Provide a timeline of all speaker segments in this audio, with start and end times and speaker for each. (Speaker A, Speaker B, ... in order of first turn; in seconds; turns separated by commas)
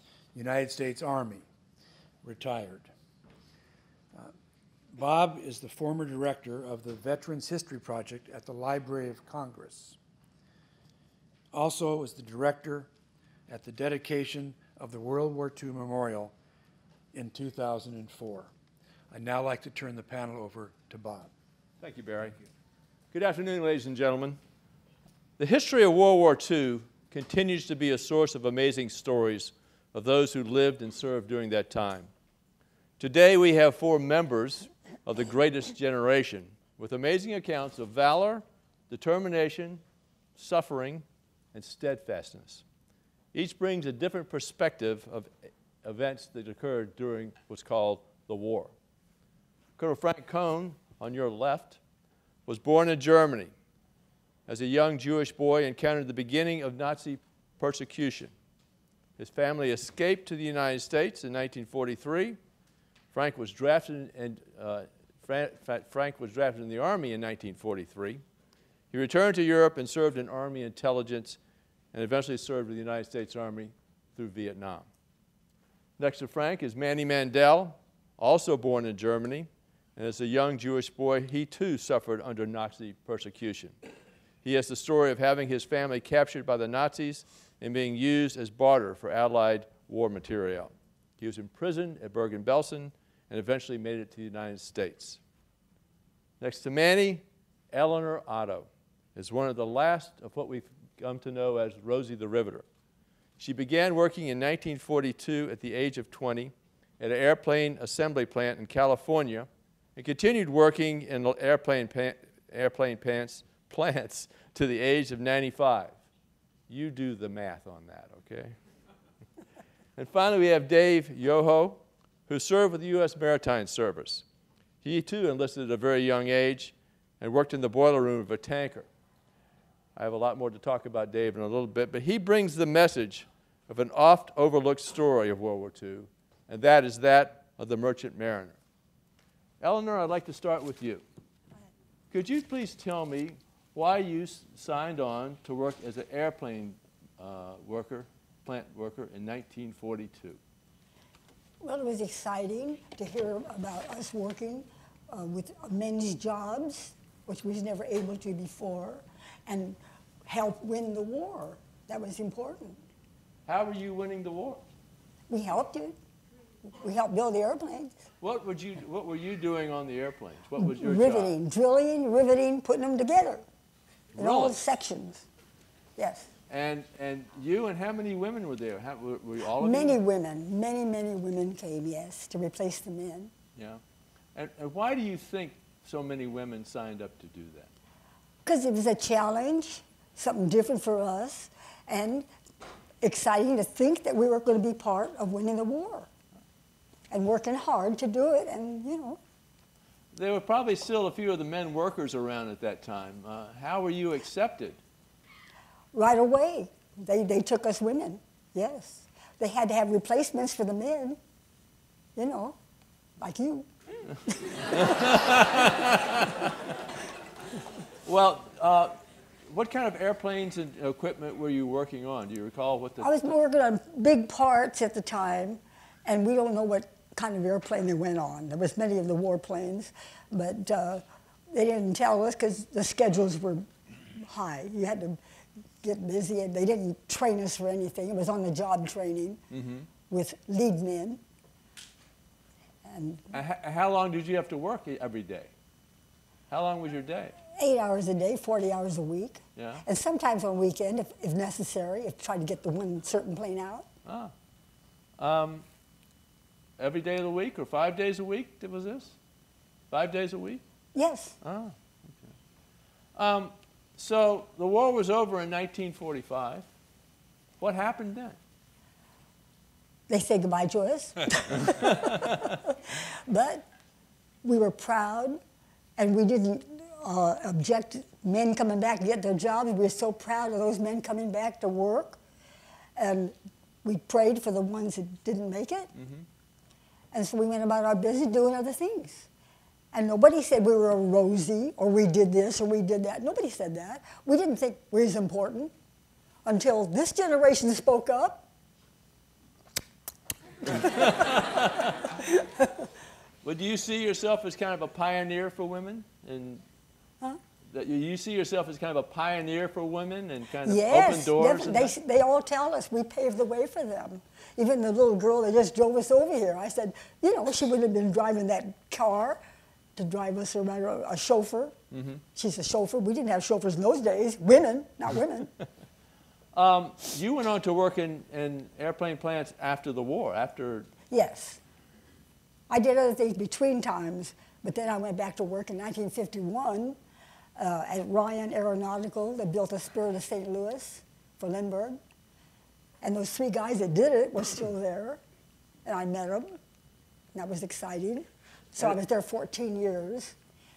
Speaker A: 0.3-1.4, Speaker A: 2.2-2.9, Speaker A: 4.9-10.0, Speaker A: 11.5-12.9, Speaker A: 13.5-16.3, Speaker A: 17.1-18.5, Speaker A: 19.1-21.3, Speaker B: 21.8-22.4, Speaker B: 23.1-24.4, Speaker B: 25.4-32.1, Speaker B: 33.0-39.8, Speaker B: 40.4-42.6, Speaker B: 43.3-45.3, Speaker B: 45.8-48.7, Speaker B: 49.8-51.8, Speaker B: 52.5-53.5, Speaker B: 54.5-58.3, Speaker B: 59.2-62.4, Speaker B: 63.1-68.2, Speaker B: 68.9-71.4, Speaker B: 71.9-74.8, Speaker B: 76.0-83.8, Speaker B: 84.4-95.2, Speaker B: 96.4-102.6, Speaker B: 103.4-116.0, Speaker B: 116.7-118.5, Speaker B: 120.0-124.2, Speaker B: 124.8-128.9, Speaker B: 129.9-138.6, Speaker B: 139.6-141.0, Speaker B: 142.1-150.4, Speaker C: 151.6-162.8, Speaker B: 163.4-164.6, Speaker C: 165.3-166.0, Speaker C: 166.8-167.9, Speaker B: 168.2-171.3, Speaker C: 170.6-173.4, Speaker B: 174.1-174.6, Speaker C: 174.2-175.3, Speaker C: 176.0-176.3, Speaker B: 176.5-180.0, Speaker C: 179.6-183.3, Speaker B: 183.6-183.8, Speaker B: 184.3-187.7, Speaker C: 188.4-192.3, Speaker C: 193.0-196.1, Speaker C: 197.1-199.2, Speaker B: 200.1-204.8, Speaker C: 205.9-211.2, Speaker C: 212.2-212.6, Speaker C: 213.2-213.7, Speaker C: 214.3-215.1, Speaker B: 214.8-216.1, Speaker B: 218.0-218.9, Speaker B: 219.5-223.2, Speaker C: 223.0-235.2, Speaker C: 235.8-239.4, Speaker B: 239.5-239.9, Speaker C: 240.1-241.2, Speaker C: 242.8-243.3, Speaker B: 243.3-245.5, Speaker B: 246.5-247.3, Speaker C: 247.6-253.8, Speaker B: 249.6-249.8, Speaker B: 254.0-254.3, Speaker B: 255.2-255.6, Speaker B: 256.8-259.1, Speaker B: 259.9-260.6, Speaker C: 260.9-261.3, Speaker B: 261.4-261.7, Speaker B: 263.1-266.6, Speaker B: 267.6-268.4, Speaker C: 270.1-272.5, Speaker C: 273.3-273.7, Speaker C: 274.4-275.4, Speaker C: 276.0-282.2, Speaker C: 282.9-285.9, Speaker C: 287.1-289.3, Speaker C: 289.9-295.7, Speaker C: 296.4-298.4, Speaker B: 301.2-301.8, Speaker B: 303.4-306.6, Speaker B: 307.7-311.9, Speaker C: 310.6-319.4, Speaker C: 319.9-321.7, Speaker B: 321.9-322.2, Speaker C: 322.3-325.5, Speaker B: 326.5-330.9, Speaker C: 331.1-331.6, Speaker C: 332.7-337.0, Speaker C: 337.6-342.0, Speaker C: 343.0-345.2, Speaker C: 345.8-346.6, Speaker C: 347.3-350.3